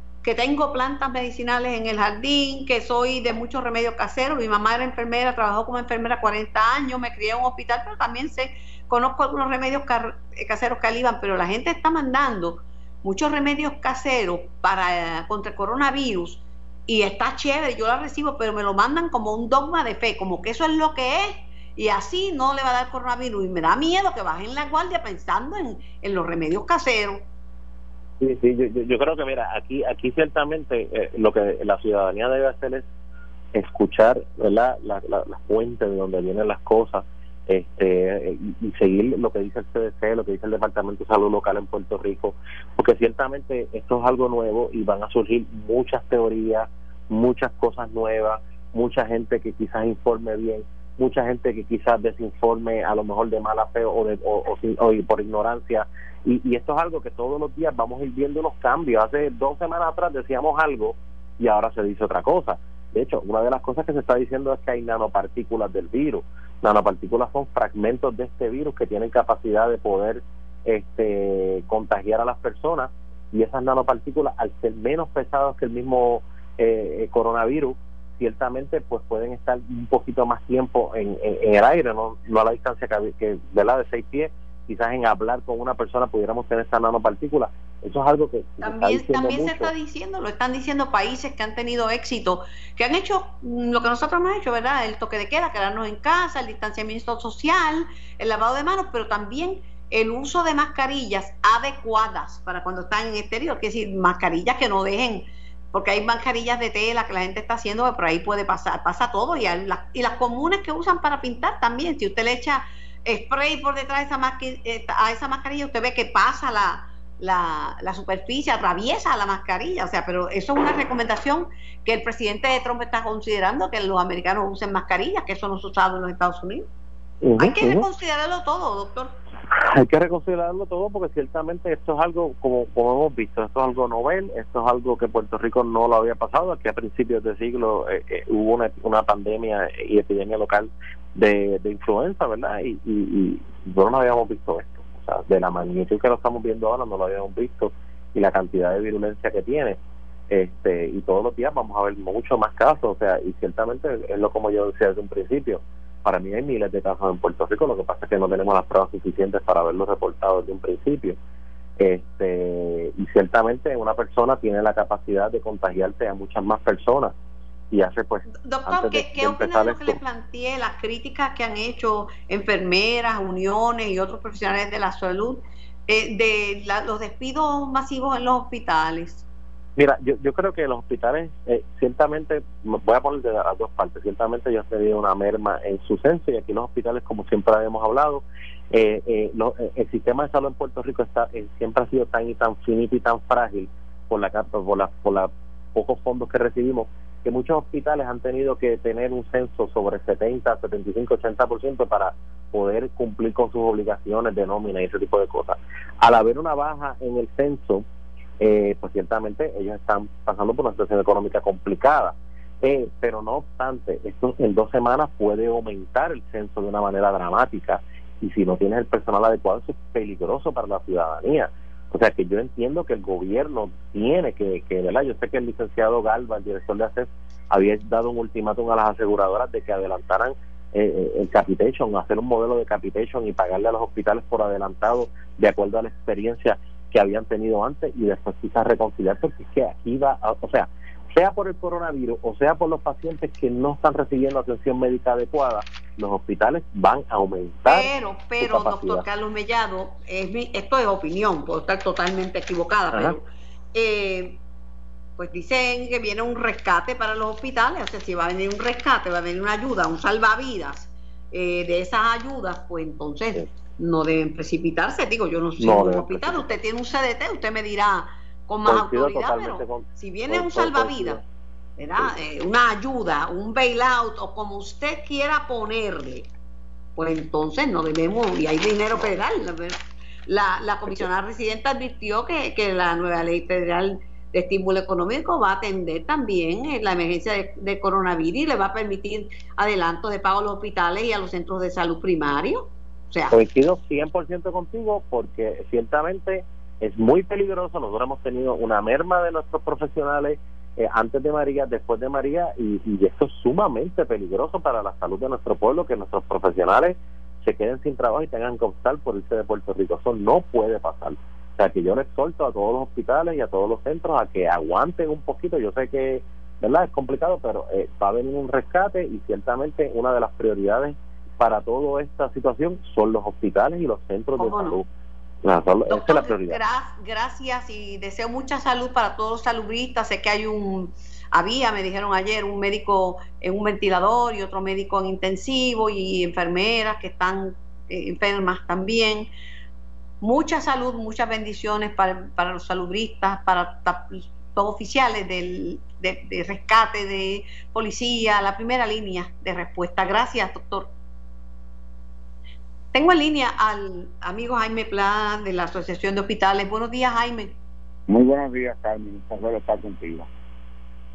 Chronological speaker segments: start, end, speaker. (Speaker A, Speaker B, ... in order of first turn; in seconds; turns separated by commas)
Speaker A: 0.2-27.2, Speaker B: 28.2-32.8, Speaker B: 33.5-89.7, Speaker A: 88.6-126.7, Speaker B: 127.2-127.8, Speaker A: 127.4-129.1, Speaker B: 129.6-149.8, Speaker B: 150.3-161.2, Speaker B: 161.8-167.1, Speaker B: 167.7-170.0, Speaker A: 168.4-179.2, Speaker B: 179.8-207.8, Speaker B: 208.4-249.1, Speaker A: 247.7-254.4, Speaker B: 252.9-253.2, Speaker A: 255.2-271.2, Speaker B: 265.6-266.5, Speaker B: 268.6-271.2, Speaker A: 271.8-276.3, Speaker A: 276.9-293.4, Speaker B: 293.3-324.9, Speaker A: 324.4-324.8, Speaker B: 325.4-326.6, Speaker A: 325.9-339.3, Speaker A: 340.2-350.9, Speaker A: 352.9-357.5, Speaker C: 358.1-360.3